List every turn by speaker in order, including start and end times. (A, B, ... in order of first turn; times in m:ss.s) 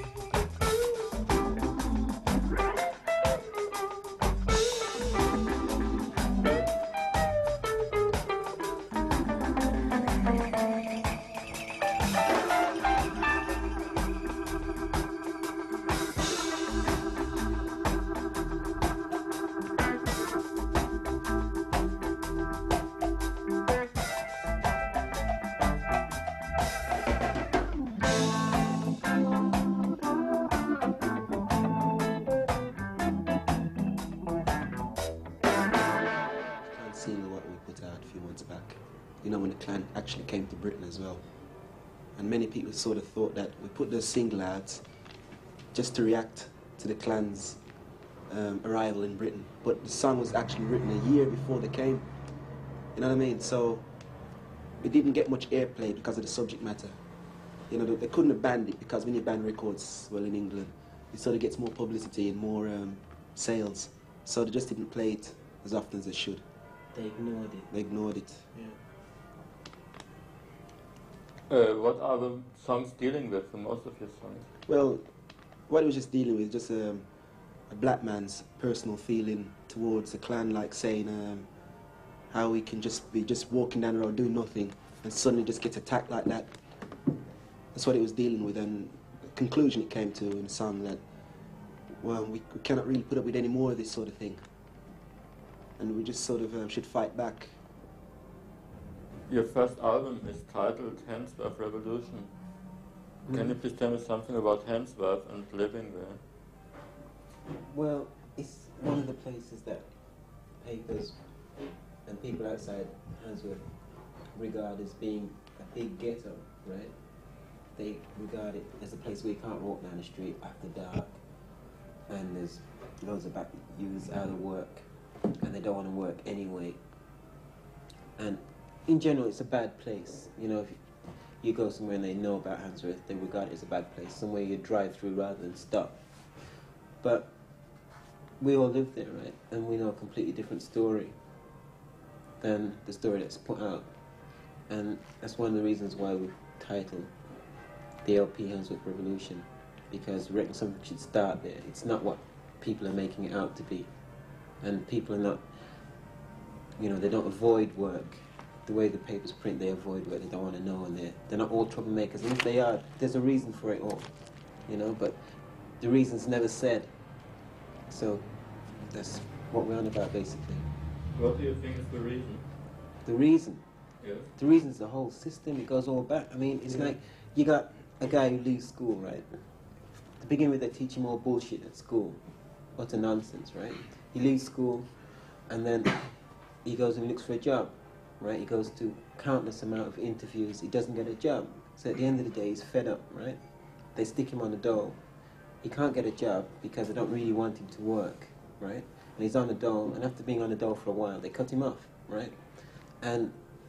0:36.6-0:41.2 A
0:42.2-0:44.8 A
0:45.7-0:47.6 A
0:48.3-0:52.0 A
0:52.9-0:53.8 A
0:54.8-0:57.0 A
0:57.7-1:06.4 A
1:06.9-1:07.7 B
1:07.7-1:08.4 A
1:08.5-1:08.8 B
1:11.5-1:14.5 C
1:14.7-1:15.0 A
1:15.7-1:17.0 A
1:17.7-1:21.5 A
1:22.3-1:26.5 A
1:27.7-1:31.0 A
1:32.0-1:34.4 A
1:35.8-1:37.5 A
1:39.3-1:42.3 C
1:43.2-1:46.2 C
1:43.3-1:43.5 B
1:47.6-1:49.9 B
1:50.6-1:51.2 B
1:52.0-1:53.6 B
1:54.3-1:56.9 B
1:57.7-2:01.2 B
2:02.1-2:04.9 B
2:05.4-2:06.8 B
2:08.2-2:10.8 B
2:11.4-2:16.0 B
2:17.0-2:17.3 B
2:18.4-2:21.2 B
2:22.4-2:23.9 B
2:24.7-2:27.1 B
2:28.0-2:33.9 B
2:34.6-2:35.5 B
2:36.8-2:44.1 B
2:44.7-2:45.2 B
2:45.8-2:46.9 B
2:47.9-2:48.3 B
2:48.8-2:50.7 B
2:51.1-2:52.4 C
2:53.0-2:53.6 B
2:54.0-2:54.3 C
2:54.4-2:59.3 B
3:00.2-3:02.2 B
3:02.8-3:04.9 B
3:05.5-3:13.4 B
3:13.9-3:15.0 B
3:15.6-3:23.4 B